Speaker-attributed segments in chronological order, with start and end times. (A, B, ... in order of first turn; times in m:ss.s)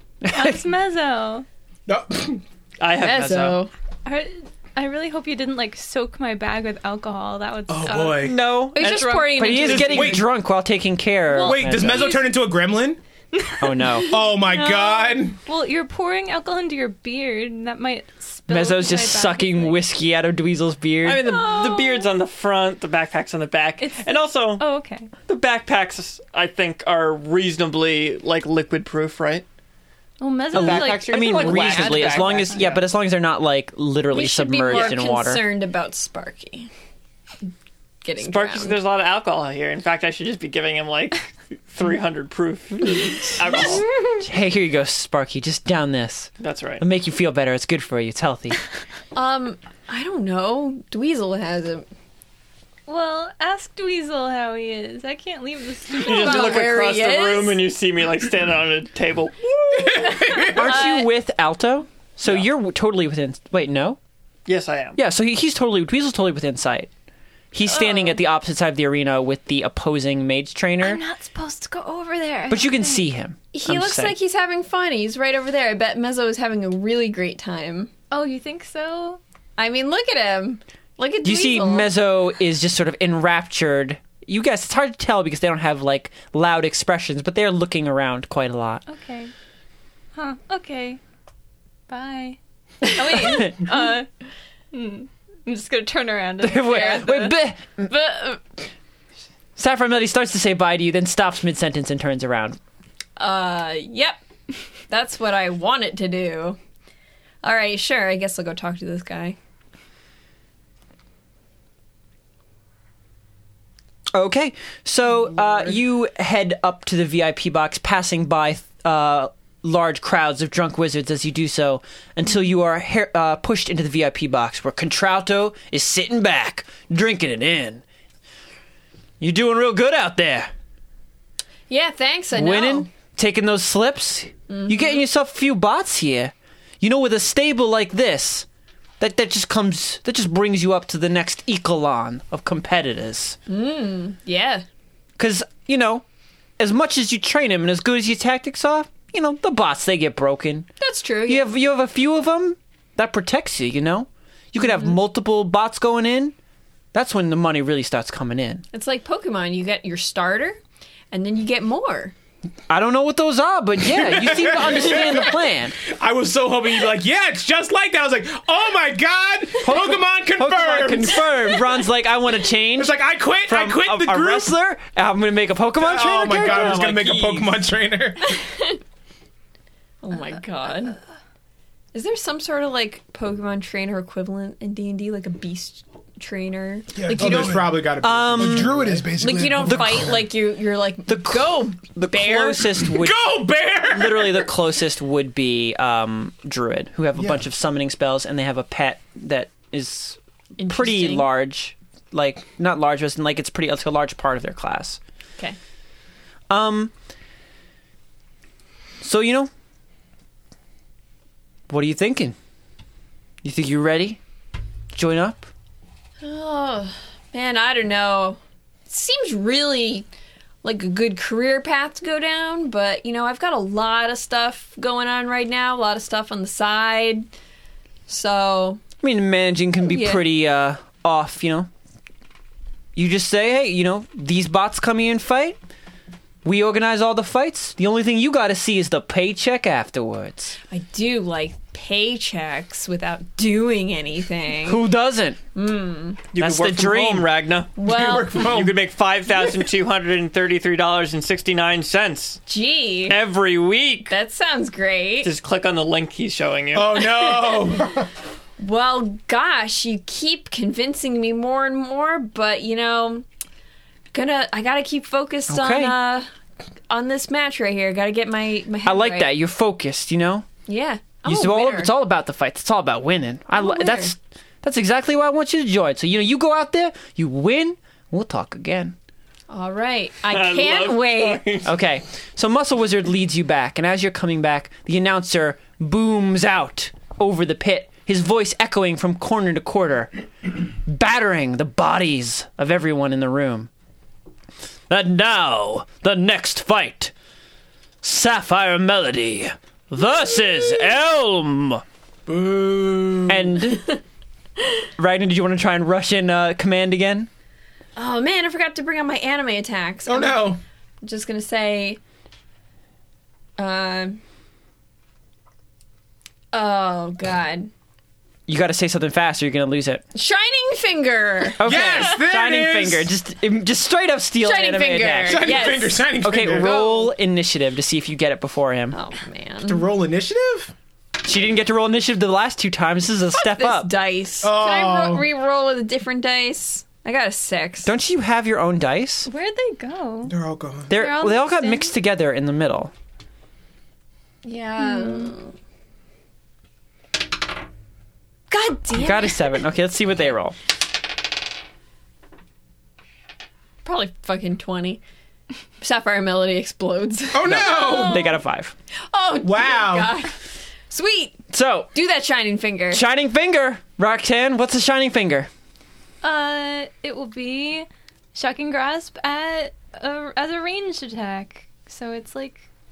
0:00.2-0:00.6 A
0:00.3-0:01.4 B
0:01.9-0:02.4 C
0:02.8-0:03.6 D
0:03.0-0:03.7 E
0:04.0-0:08.3 B
0:07.7-0:08.5 C
0:08.2-0:12.2 A
0:08.7-0:10.2 E
0:08.9-0:09.4 B
0:09.5-0:10.3 C
0:11.3-0:12.3 B
0:11.4-0:13.0 C
0:13.3-0:19.8 B
0:13.6-0:14.1 A
0:14.1-0:15.4 C
0:18.5-0:21.2 A
0:21.0-0:24.6 D
0:21.3-0:22.0 B
0:23.8-0:25.1 B
0:25.2-0:29.4 D
0:30.2-0:32.7 B
0:30.5-0:35.4 A
0:30.5-0:32.8 D
0:34.1-0:36.7 E
0:38.0-0:38.8 E
0:38.2-0:43.8 D
0:43.5-0:43.8 E
0:44.2-0:48.6 A
0:46.4-0:46.8 D
0:49.1-0:51.9 E
0:52.9-0:56.7 B
0:55.9-0:57.6 E
0:56.0-1:00.0 D
0:59.7-1:00.6 C
1:00.2-1:01.0 E
1:00.5-1:04.0 A
1:04.4-1:05.0 D
1:05.0-1:06.9 A
1:07.5-1:11.0 A
1:07.8-1:08.1 B
1:10.8-1:13.1 B
1:12.5-1:14.1 A
1:13.5-1:17.9 E
1:18.1-1:19.2 B
1:19.6-1:21.9 E
1:21.2-1:28.8 A
1:28.9-1:29.3 B
1:30.1-1:31.0 B
1:31.9-1:34.1 B
1:32.9-1:33.5 E
1:33.1-1:33.6 A
1:34.7-1:37.3 B
1:36.4-1:37.9 A
1:36.6-1:37.2 E
1:38.1-1:38.4 E
1:39.6-1:42.6 A
1:43.2-1:44.2 E
1:44.9-1:46.6 E
1:47.4-1:49.4 E
1:54.1-2:07.8 A
2:09.2-2:10.5 A
2:11.7-2:12.9 E
2:12.3-2:18.5 A
2:14.5-2:15.0 E
2:19.0-2:23.4 A
2:23.5-2:24.6 E
2:25.2-2:26.0 A
2:26.6-2:30.7 A
2:30.8-2:31.5 E
2:31.2-2:36.3 A
2:36.9-2:38.6 A
2:38.7-2:40.6 E
2:41.1-2:42.1 E
2:42.7-2:45.8 A
2:43.8-2:51.3 C
2:49.6-2:56.8 A
2:52.8-2:54.5 C
2:55.8-2:58.3 C
2:56.4-2:57.7 D
2:58.4-2:58.8 E
3:00.0-3:01.0 E
3:01.9-3:07.0 E
3:06.9-3:10.3 F
3:07.1-3:09.1 C
3:08.0-3:08.7 A
3:09.2-3:12.6 E
3:11.1-3:13.2 A
3:12.8-3:14.5 C
3:13.9-3:25.0 A
3:20.6-3:21.3 E
3:26.5-3:26.9 A
3:29.0-3:29.5 A
3:31.7-3:32.3 A
3:33.4-3:34.2 A
3:34.9-3:35.5 A
3:36.2-3:40.1 E
3:40.6-3:47.3 E
3:48.1-3:48.8 E
3:49.0-3:51.7 A
3:49.8-3:50.2 E
3:52.9-3:55.6 A
3:56.4-4:00.6 A
4:00.7-4:04.8 E
4:04.6-4:05.4 A
4:05.5-4:06.2 E
4:06.3-4:07.7 D
4:06.4-4:07.3 A
4:07.8-4:08.4 E
4:07.8-4:09.5 C
4:08.3-4:12.4 D
4:12.5-4:13.2 E
4:13.1-4:14.1 D
4:14.0-4:15.3 E
4:15.2-4:17.1 D
4:16.7-4:18.0 C
4:18.6-4:23.2 E
4:24.1-4:26.3 E
4:25.5-4:26.0 A
4:26.9-4:29.4 E
4:28.8-4:30.5 A
4:30.6-4:31.9 E
4:31.2-4:39.0 A
4:33.5-4:34.1 E
4:39.5-4:41.4 E
4:40.3-4:41.7 D
4:41.6-4:53.7 A
4:54.9-4:57.1 A
4:58.0-5:01.8 A
5:02.3-5:03.6 C
5:03.3-5:04.0 A
5:05.0-5:07.3 A
5:08.0-5:12.0 E
5:10.1-5:10.6 C
5:13.6-5:14.2 E
5:16.5-5:17.7 E
5:18.5-5:20.0 A
5:20.1-5:22.0 E
5:21.6-5:29.0 A
5:21.6-5:23.1 C
5:24.4-5:27.1 E
5:25.3-5:26.8 C
5:28.9-5:29.8 E
5:29.6-5:30.7 C
5:31.2-5:33.9 A
5:33.3-5:37.9 E
5:34.4-5:35.3 C
5:37.8-5:39.3 A
5:39.2-5:40.3 B
5:40.3-5:40.9 C
5:40.9-5:42.9 A
5:40.9-5:41.9 B
5:44.4-5:45.5 E
5:44.8-5:45.4 B
5:48.5-5:49.3 E
5:48.9-5:50.6 A
5:53.8-5:55.0 E
5:55.8-5:58.1 E
5:57.3-5:58.3 C
5:57.4-5:58.7 A
5:57.6-5:58.3 B
5:59.1-6:00.3 E
5:59.4-6:00.2 C
6:00.9-6:01.4 E
6:01.5-6:01.9 A
6:01.9-6:03.0 E
6:02.9-6:05.5 A
6:06.2-6:12.7 B